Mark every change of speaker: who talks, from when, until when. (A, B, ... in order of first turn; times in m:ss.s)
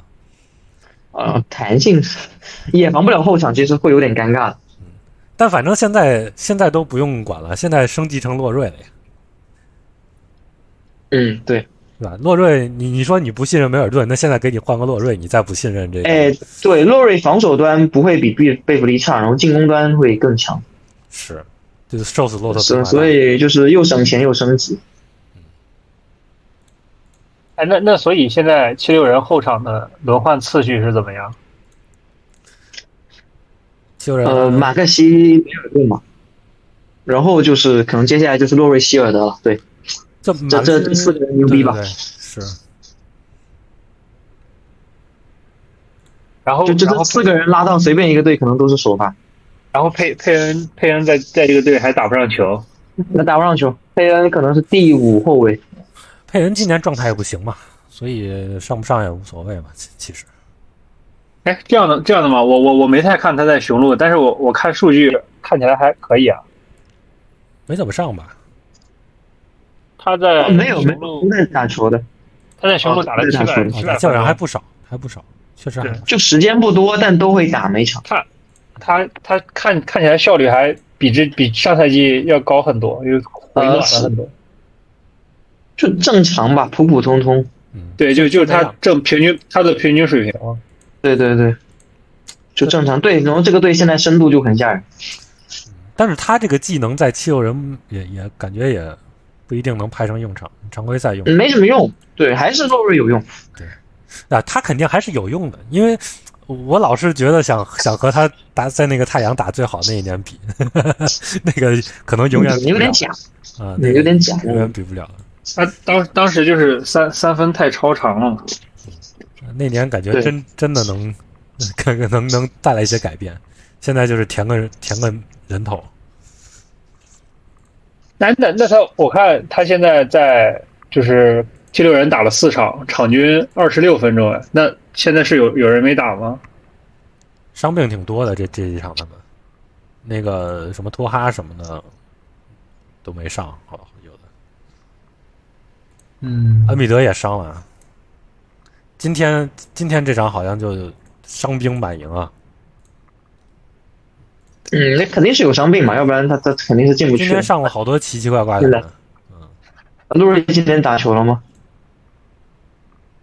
0:01.1-0:04.6 A
0:04.8-0:08.9 B
0:11.1-0:11.6 A
0:12.0-0:16.3 B
0:16.0-0:20.6 A
0:21.1-0:23.1 B
0:22.5-0:24.8 A
0:27.6-0:31.3 C
0:34.0-0:34.7 B
0:34.2-0:36.0 A
0:37.0-0:39.6 A
0:40.2-0:42.6 B
0:40.5-0:41.8 A
0:46.4-0:47.3 C
0:46.6-0:49.2 A
0:49.7-0:52.6 C
0:53.1-0:55.6 A
0:56.3-1:00.3 B
1:01.4-1:06.4 C
1:07.7-1:08.4 B
1:10.0-1:11.3 C
1:10.4-1:12.0 A
1:12.6-1:14.4 C
1:12.8-1:13.7 A
1:13.7-1:16.1 B
1:16.1-1:18.0 A
1:18.8-1:24.3 C
1:23.6-1:24.1 A
1:25.8-1:27.5 A
1:27.7-1:28.7 B
1:28.0-1:30.6 C
1:31.0-1:31.6 A
1:32.6-1:34.8 A
1:35.9-1:41.4 B
1:41.2-1:43.2 A
1:44.3-1:53.0 B
1:52.3-1:53.2 A
1:53.6-1:55.2 B
1:53.8-1:54.7 A
1:55.5-1:58.4 C
1:59.4-2:05.9 B
2:08.2-2:16.4 C
2:17.5-2:19.2 B
2:20.0-2:21.8 B
2:23.0-2:24.2 B
2:26.2-2:26.8 C
2:26.7-2:27.6 B
2:29.0-2:32.3 B
2:34.7-2:37.5 A
2:37.1-2:39.4 B
2:40.1-2:41.4 A